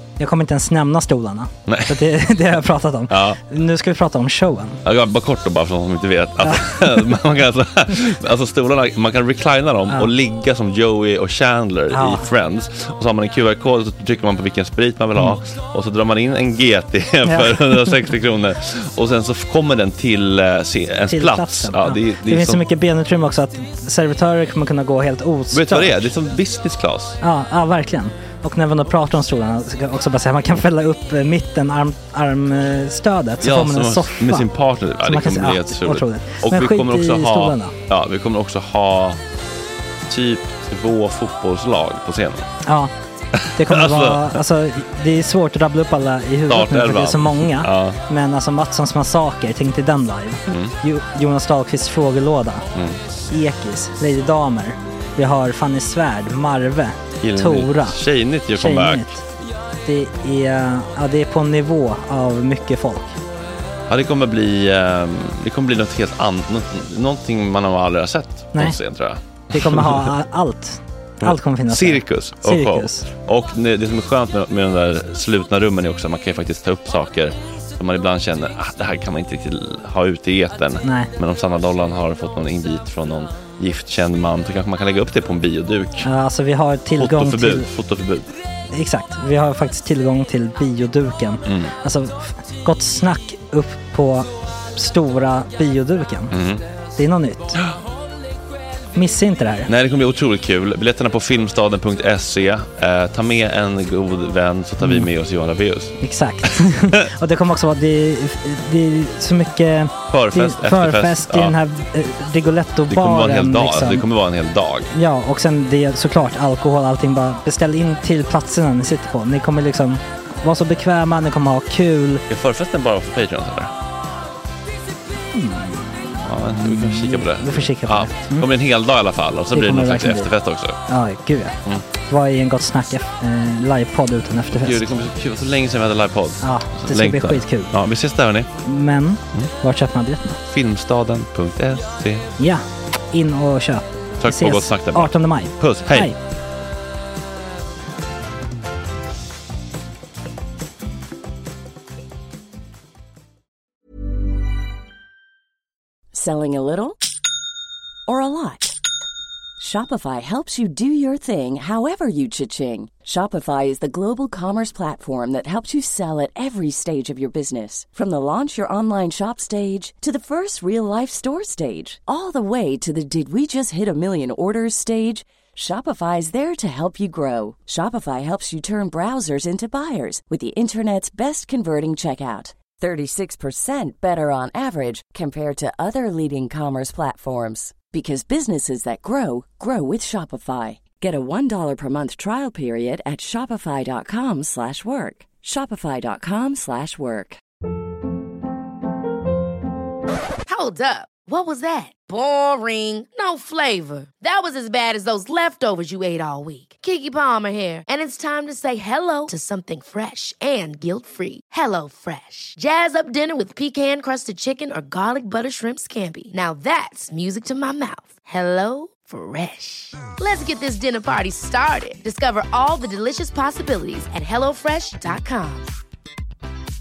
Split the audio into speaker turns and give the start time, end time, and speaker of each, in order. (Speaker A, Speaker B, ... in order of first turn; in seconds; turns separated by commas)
Speaker A: 0.2-4.8, Speaker B: 1.6-2.0, Speaker B: 3.1-3.4, Speaker B: 4.8-22.6, Speaker A: 11.9-12.3, Speaker A: 17.2-17.9, Speaker A: 21.1-26.1, Speaker B: 25.5-27.2, Speaker A: 27.2-34.5, Speaker B: 33.4-39.2, Speaker A: 35.0-37.7, Speaker B: 40.1-42.5, Speaker A: 42.6-42.9, Speaker B: 43.3-44.4, Speaker A: 43.6-52.6, Speaker B: 46.5-48.0, Speaker B: 50.5-50.7, Speaker B: 52.7-53.0, Speaker A: 53.3-58.0, Speaker B: 57.2-59.1, Speaker A: 58.5-59.2, Speaker A: 59.8-63.2, Speaker B: 63.9-70.1, Speaker A: 69.5-73.0, Speaker B: 71.2-86.1, Speaker A: 80.8-81.1, Speaker A: 86.0-87.7, Speaker B: 86.9-88.3, Speaker A: 88.7-96.3, Speaker B: 91.5-91.7, Speaker B: 96.3-96.6, Speaker A: 97.0-97.5, Speaker A: 98.9-99.7, Speaker B: 99.7-107.1, Speaker A: 104.8-105.1, Speaker A: 106.0-114.1, Speaker B: 110.1-111.6, Speaker B: 112.9-114.9, Speaker A: 114.9-122.2, Speaker B: 122.3-123.7, Speaker A: 125.3-128.5, Speaker B: 126.2-130.8, Speaker A: 129.5-130.3, Speaker A: 130.9-134.9, Speaker B: 134.5-138.5, Speaker A: 136.4-137.7, Speaker A: 138.6-140.4, Speaker B: 140.4-142.3, Speaker A: 142.4-146.2, Speaker B: 144.2-146.1, Speaker C: 156.1-157.1, Speaker C: 158.1-158.8, Speaker C: 159.6-197.4, Speaker D: 200.5-225.7